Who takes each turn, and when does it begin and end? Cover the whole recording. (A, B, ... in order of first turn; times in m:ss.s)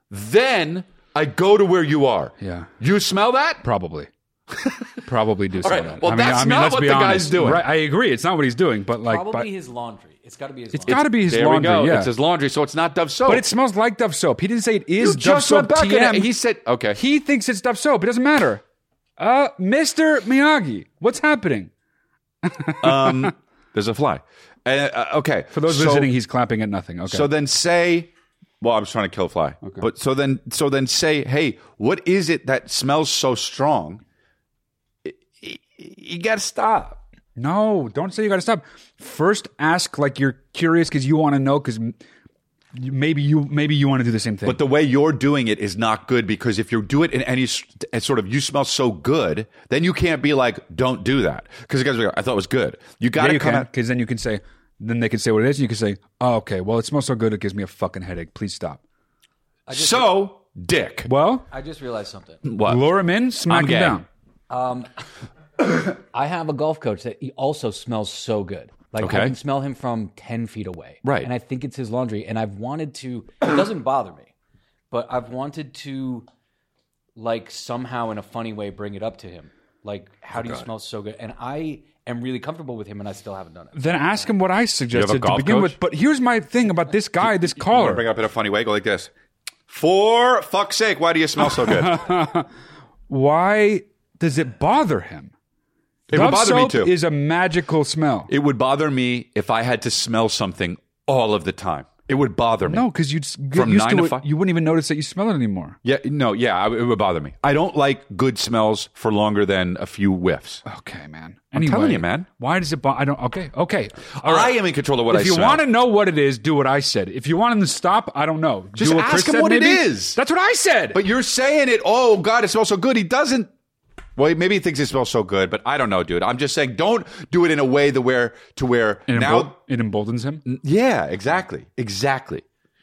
0:00.1-0:03.6 A
0:02.4-0:02.7 B
0:03.6-0:04.1 B
0:04.6-0:04.9 A
0:05.0-0:09.5 B
0:05.6-0:07.7 A
0:09.0-0:11.0 C
0:10.7-0:12.1 B
0:10.9-0:13.5 A
0:13.3-0:16.3 B
0:15.0-0:17.0 A
0:16.9-0:18.6 B
0:19.2-0:21.7 B
0:22.4-0:23.3 B
0:22.8-0:26.1 A
0:25.5-0:27.3 B
0:27.1-0:34.0 A
0:35.0-0:37.0 A
0:37.4-0:42.0 B
0:42.8-0:44.6 B
0:44.4-0:53.7 A
0:53.2-0:58.8 B
0:59.7-1:00.2 C
0:59.7-1:01.1 A
1:01.1-1:01.5 B
1:01.5-1:02.4 C
1:02.4-1:02.8 A
1:02.6-1:04.0 B
1:03.5-1:04.0 A
1:04.5-1:04.9 C
1:05.7-1:14.3 C
1:09.0-1:09.4 A
1:11.0-1:11.3 A
1:14.9-1:16.3 C
1:17.2-1:24.3 C
1:23.7-1:28.0 B
1:24.9-1:25.8 A
1:27.6-1:29.1 A
1:29.7-1:32.0 A
1:31.4-1:32.5 B
1:33.1-1:35.3 B
1:36.1-1:36.9 A
1:36.1-1:38.3 B
1:38.3-1:42.9 A
1:42.7-1:45.8 B
1:43.5-1:44.2 A
1:45.8-1:50.6 A
1:50.6-1:54.6 B
1:51.5-1:52.3 A
1:54.2-1:55.6 A
1:55.1-2:01.0 B
1:58.8-2:00.2 A
2:00.9-2:03.5 A
2:04.2-2:09.6 A
2:09.1-2:10.4 B
2:10.5-2:12.4 A